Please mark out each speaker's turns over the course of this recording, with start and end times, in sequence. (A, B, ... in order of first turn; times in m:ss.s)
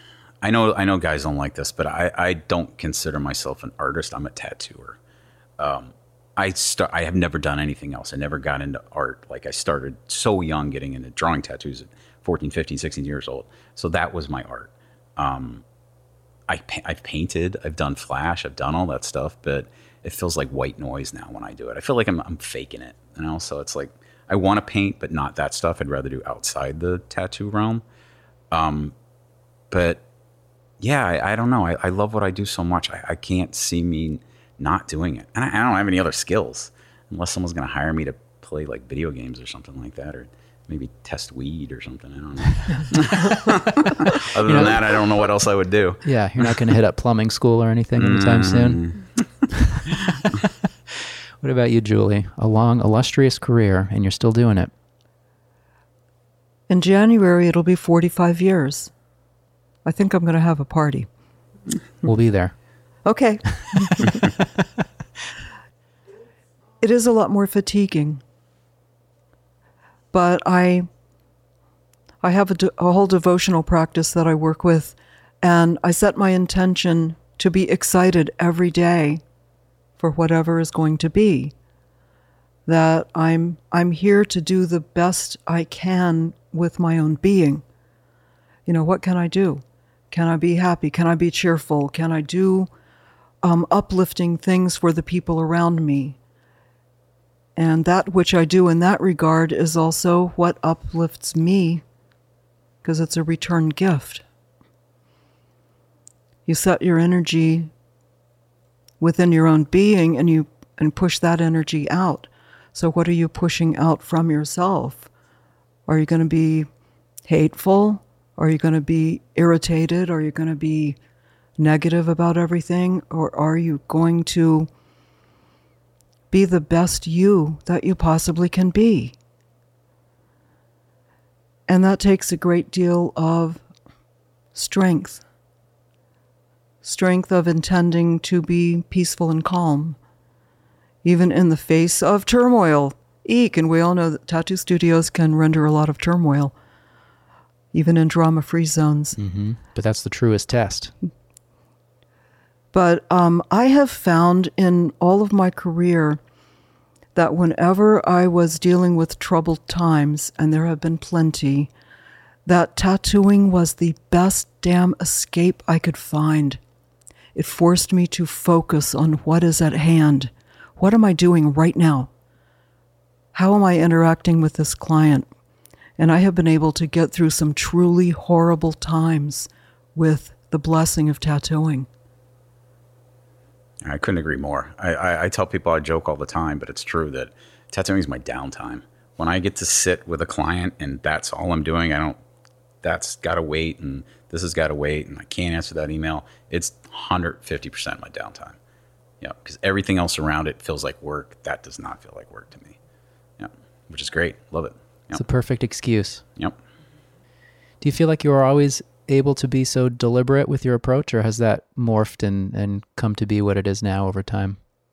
0:00.4-0:05.0 A
0:05.6-0:15.6 A
0:16.5-0:27.8 A
0:28.5-0:28.9 A
0:29.7-0:30.0 A
0:30.8-0:46.6 A
0:44.4-0:44.8 B
0:46.0-0:48.8 B
0:48.0-0:49.2 A
0:49.5-0:54.7 B
0:56.7-0:58.9 C
0:59.8-1:01.1 C
1:02.0-1:02.5 B
1:03.0-1:04.3 C
1:06.8-1:08.2 C
1:10.1-1:10.9 C
1:12.2-1:19.2 C
1:20.0-1:21.5 C
1:22.6-1:27.6 C
1:28.7-1:32.7 C
1:33.4-1:36.2 C
1:37.6-1:41.8 C
1:42.8-1:44.2 C
1:46.4-1:47.7 C
1:49.0-1:55.1 C
1:55.9-1:56.7 C
1:57.2-2:01.0 C
2:01.6-2:04.7 C
2:06.3-2:09.1 C
2:11.7-2:13.6 C
2:14.5-2:15.2 C
2:16.8-2:20.0 C
2:21.0-2:26.5 C
2:27.7-2:29.2 C
2:29.2-2:30.9 B
2:32.7-2:36.2 C
2:37.1-2:41.7 C
2:42.4-2:46.6 C
2:47.3-2:52.1 C
2:53.3-2:55.3 C
2:56.0-3:01.9 C
3:03.8-3:12.2 A
3:12.8-3:18.6 A
3:19.2-3:22.8 A
3:23.4-3:25.2 A
3:25.1-3:26.2 B
3:27.8-3:34.6 B